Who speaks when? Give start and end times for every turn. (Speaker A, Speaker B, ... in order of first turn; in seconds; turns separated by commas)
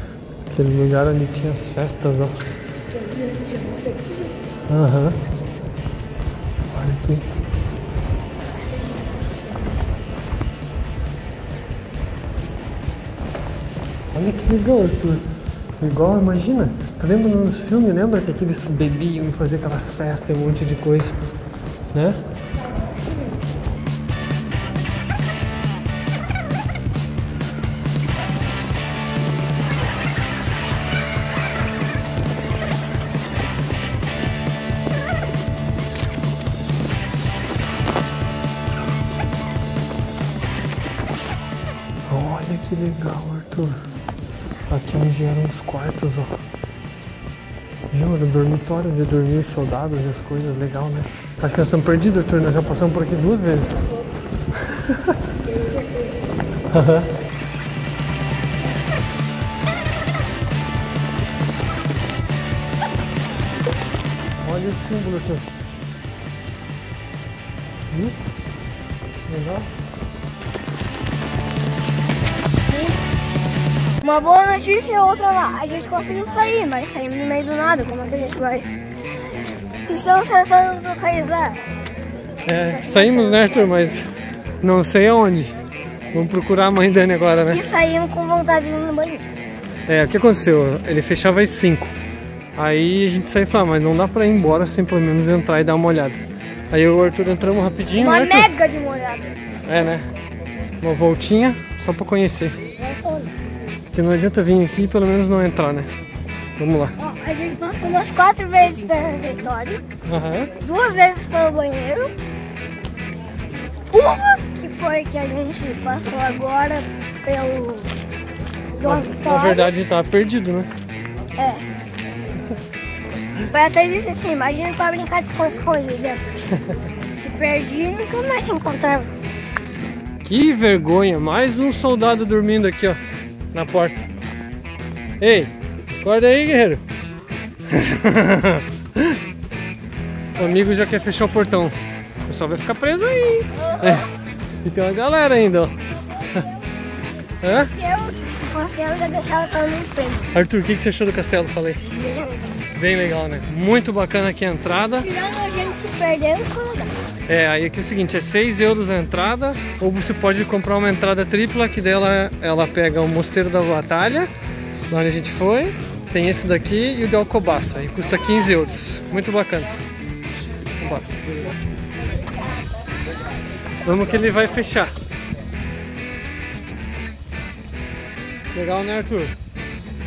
Speaker A: 0.5-2.4, Speaker B: 2.9-4.3, Speaker A: 4.7-5.2, Speaker A: 6.7-7.3, Speaker B: 8.6-9.5, Speaker A: 14.1-15.2, Speaker A: 15.8-21.2, Speaker A: 21.9-22.2, Speaker A: 42.1-43.8, Speaker A: 44.7-46.4, Speaker A: 47.9-53.9, Speaker A: 54.7-55.2, Speaker A: 56.7-57.1, Speaker A: 64.4-65.5, Speaker A: 67.9-68.2, Speaker A: 69.3-69.7, Speaker B: 74.0-78.8, Speaker B: 79.9-81.6, Speaker A: 82.4-84.1, Speaker B: 82.6-83.6, Speaker A: 84.6-85.5, Speaker A: 86.1-87.6, Speaker B: 87.5-89.2, Speaker A: 89.9-92.0, Speaker A: 92.6-96.2, Speaker A: 96.7-98.5, Speaker B: 98.0-99.9, Speaker A: 99.7-100.1, Speaker A: 100.8-102.6, Speaker B: 102.8-103.4, Speaker A: 103.9-105.9, Speaker A: 106.6-107.0, Speaker B: 107.0-109.8, Speaker A: 110.0-110.5, Speaker B: 110.6-112.1, Speaker B: 113.9-118.0, Speaker B: 118.8-119.7, Speaker A: 118.8-120.7, Speaker B: 121.4-121.7, Speaker B: 123.5-126.4, Speaker B: 127.1-129.1, Speaker A: 130.2-133.0, Speaker A: 133.5-134.1, Speaker A: 135.2-136.8, Speaker A: 137.7-139.2, Speaker A: 140.4-144.1, Speaker A: 144.6-145.8, Speaker A: 147.4-147.7, Speaker B: 147.6-150.3, Speaker A: 150.3-151.9, Speaker B: 152.0-152.4, Speaker A: 152.7-155.1, Speaker B: 154.9-156.9, Speaker A: 157.3-164.3, Speaker A: 164.9-169.7, Speaker A: 170.8-171.1, Speaker A: 173.8-174.9, Speaker A: 178.5-179.4